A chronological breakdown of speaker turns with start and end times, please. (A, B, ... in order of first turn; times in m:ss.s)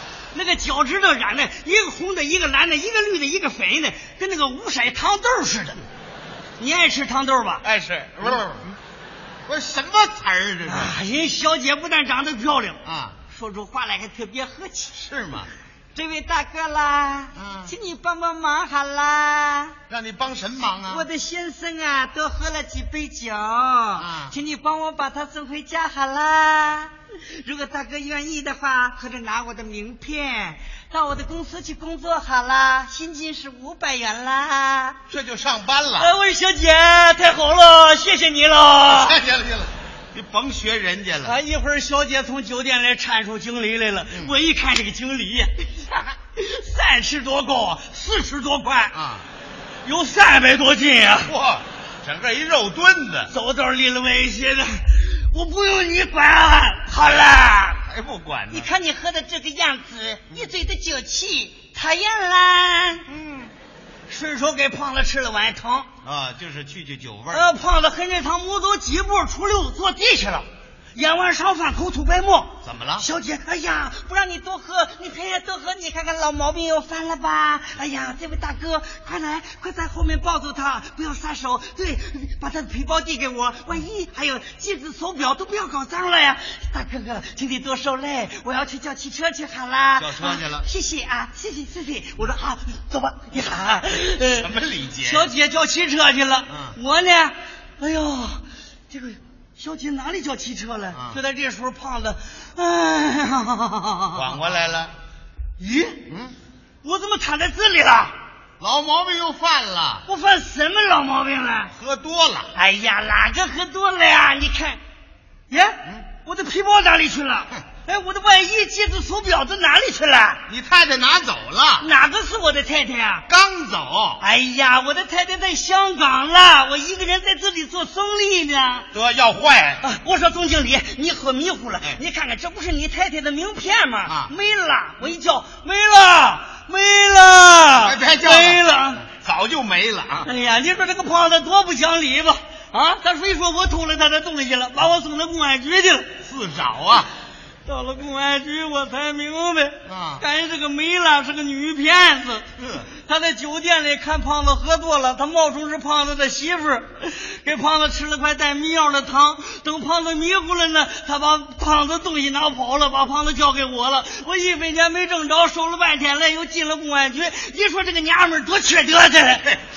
0:00.3-0:05.8 A
0:06.6-0:07.6 A
0:07.6-0:08.7 B
0:09.5-0:10.9 B
0:10.6-0:15.0 A
0:12.8-0:13.2 B
0:15.0-0:15.5 B
0:16.0-0:19.8 A
0:17.4-0:17.7 B
0:19.9-0:21.1 B
0:20.9-0:35.0 A
0:24.0-0:24.4 B
0:35.1-0:36.1 B
0:36.0-0:39.2 A
0:38.9-0:41.4 B
0:41.2-0:49.0 A
0:48.9-0:49.3 B
0:49.8-0:51.3 A
0:51.2-0:53.3 B
0:53.3-0:57.8 A
0:57.8-0:58.7 B
0:58.5-1:03.1 A
1:03.1-1:03.5 B
1:04.1-1:05.9 A
1:06.0-1:07.5 B
1:07.3-1:34.5 A
1:12.6-1:13.1 B
1:30.0-1:30.7 B
1:34.4-1:35.3 B
1:35.0-1:44.3 A
1:36.5-1:36.8 B
1:40.9-1:41.2 B
1:44.1-1:45.0 B
1:45.6-1:46.0 A
1:46.1-1:46.4 B
1:46.8-1:48.2 A
1:48.6-1:50.0 B
1:50.1-1:51.7 A
1:51.8-1:52.5 B
1:52.5-1:54.8 A
1:55.5-2:00.4 A
2:00.5-2:01.9 B
2:01.8-2:03.2 A
2:03.3-2:04.2 B
2:04.2-2:08.9 A
2:08.9-2:09.8 B
2:09.8-2:19.0 A
2:14.1-2:14.3 B
2:17.7-2:20.3 B
2:20.2-2:26.2 A
2:26.2-2:27.1 B
2:27.6-2:49.5 A
2:29.8-2:30.2 B
2:32.6-2:32.8 B